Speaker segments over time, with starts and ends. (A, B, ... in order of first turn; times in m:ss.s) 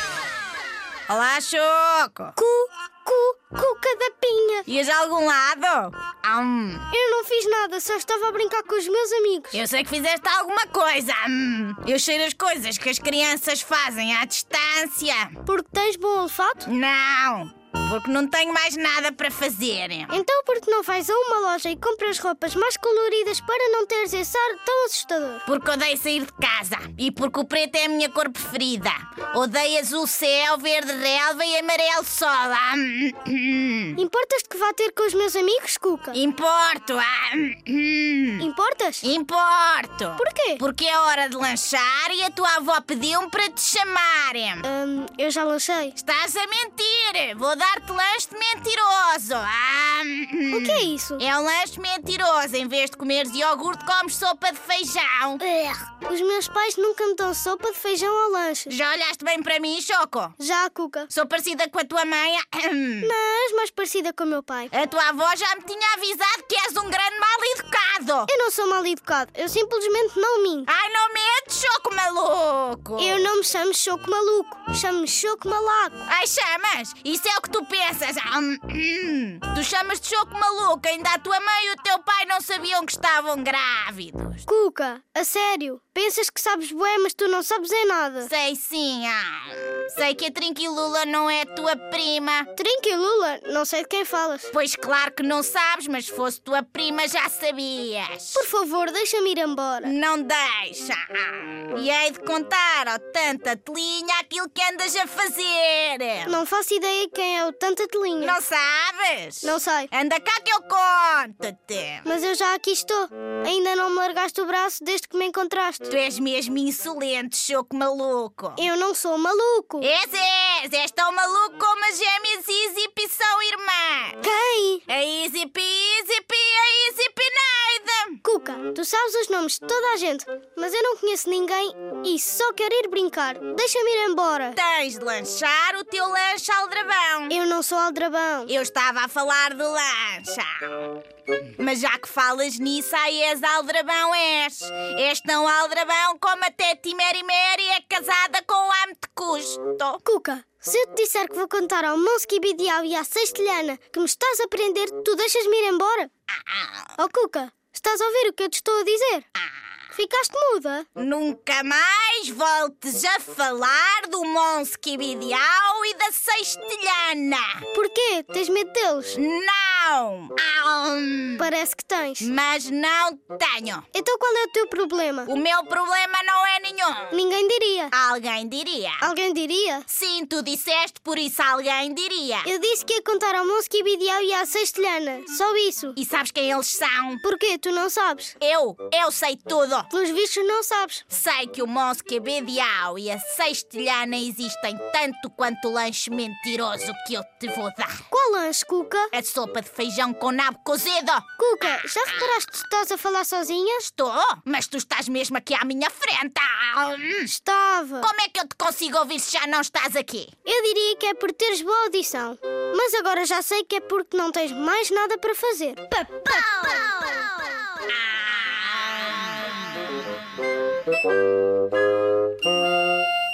0:01.1-0:02.3 A
0:02.4-0:04.6 B
0:04.7-0:06.9 A
0:06.9-0:09.6 B
0:09.5-0:15.4 A
0:15.4-0:16.7 B
0:16.6-0:20.2 A
0:20.1-0:25.4 B
0:25.4-0:34.0 A
0:34.0-0:36.2 B
0:36.1-0:38.5 A
0:38.4-0:39.1 B
0:39.0-0:44.6 A
0:40.2-0:40.6 B
0:44.6-0:46.0 B
0:46.0-0:55.4 A
0:50.5-0:51.2 B
0:55.4-0:58.8 B
0:58.7-1:00.4 A
1:00.4-1:01.1 B
1:01.1-1:03.1 A
1:03.0-1:04.7 B
1:04.7-1:08.3 A
1:08.3-1:10.7 B
1:10.7-1:13.2 A
1:13.0-1:16.1 B
1:16.1-1:24.4 A
1:24.4-1:28.3 B
1:28.2-1:32.5 A
1:32.5-1:34.5 B
1:34.5-1:38.5 A
1:38.3-1:39.9 B
1:39.8-1:46.4 A
1:46.2-1:48.4 B
1:48.2-1:52.0 A
1:49.4-1:49.9 B
1:52.0-1:55.9 B
1:55.9-1:58.6 A
1:58.6-1:59.9 B
1:59.8-2:04.2 A
2:04.2-2:04.8 B
2:04.9-2:08.2 A
2:08.2-2:14.6 B
2:14.5-2:17.4 A
2:17.3-2:18.5 B
2:18.5-2:20.9 A
2:21.6-2:30.0 A
2:30.0-2:36.1 B
2:36.3-2:37.0 A
2:37.0-2:39.2 B
2:39.9-2:40.9 B
2:41.0-2:47.6 A
2:47.7-2:49.2 B
2:49.1-2:51.5 A
2:51.4-2:52.3 B
2:52.2-2:53.8 A
2:53.9-2:55.3 B
2:55.2-2:57.2 A
2:57.1-2:57.9 B
2:57.9-2:59.1 A
2:59.0-2:59.8 B
2:59.9-3:02.5 A
3:02.4-3:06.0 B
3:06.0-3:07.2 A
3:07.2-3:08.4 B
3:08.4-3:09.9 A
3:09.9-3:11.0 B
3:11.1-3:18.0 A
3:18.1-3:19.1 B
3:19.1-3:21.2 A
3:21.4-3:23.9 B
3:23.9-3:27.3 A
3:27.2-3:28.1 B
3:28.0-3:30.3 A
3:30.4-3:36.4 B
3:36.3-3:37.3 A
3:37.9-3:39.0 A